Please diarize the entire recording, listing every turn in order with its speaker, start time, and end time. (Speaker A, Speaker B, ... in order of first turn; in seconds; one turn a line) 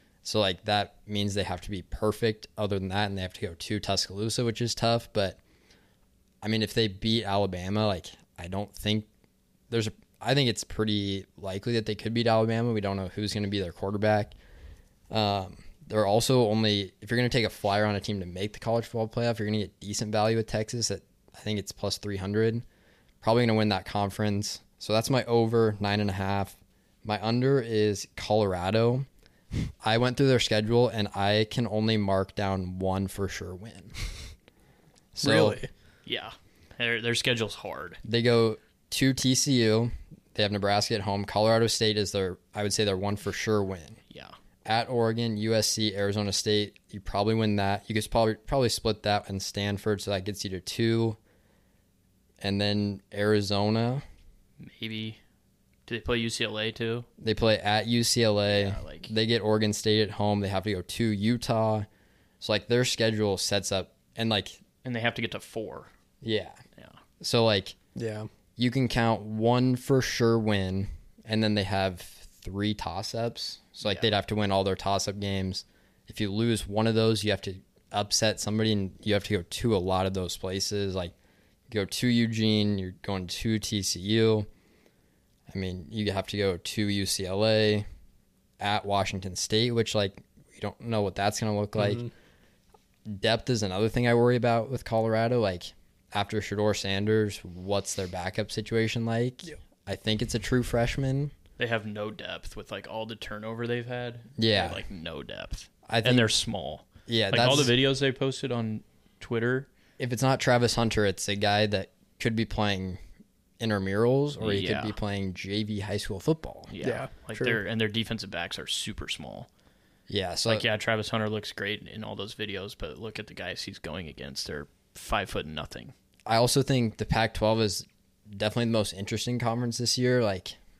Speaker A: 0.2-5.4
Speaker A: 6.4-9.1
Speaker A: 9.7-14.3
Speaker A: 15.1-22.6
Speaker A: 23.2-29.1
Speaker A: 29.8-33.9
Speaker A: 35.1-35.6
Speaker B: 35.2-35.7
Speaker C: 36.1-38.0
Speaker A: 38.0-44.0
Speaker A: 44.6-51.2
Speaker A: 52.4-54.0
Speaker C: 54.6-55.2
Speaker C: 55.9-57.1
Speaker A: 57.2-61.9
Speaker C: 58.5-59.1
Speaker A: 62.4-64.6
Speaker C: 64.8-65.9
Speaker A: 66.2-66.6
Speaker A: 67.2-67.8
Speaker B: 68.0-68.3
Speaker A: 68.6-81.1
Speaker A: 81.7-84.5
Speaker A: 85.5-87.9
Speaker A: 88.6-92.1
Speaker B: 91.8-92.1
Speaker A: 93.1-101.3
Speaker C: 101.6-109.7
Speaker A: 104.4-104.8
Speaker A: 105.9-106.3
Speaker A: 107.1-107.7
Speaker A: 110.0-113.0
Speaker A: 113.6-116.7
Speaker C: 114.4-115.0
Speaker C: 116.7-119.5
Speaker B: 116.8-117.6
Speaker A: 120.1-120.7
Speaker C: 120.5-125.9
Speaker A: 126.3-130.6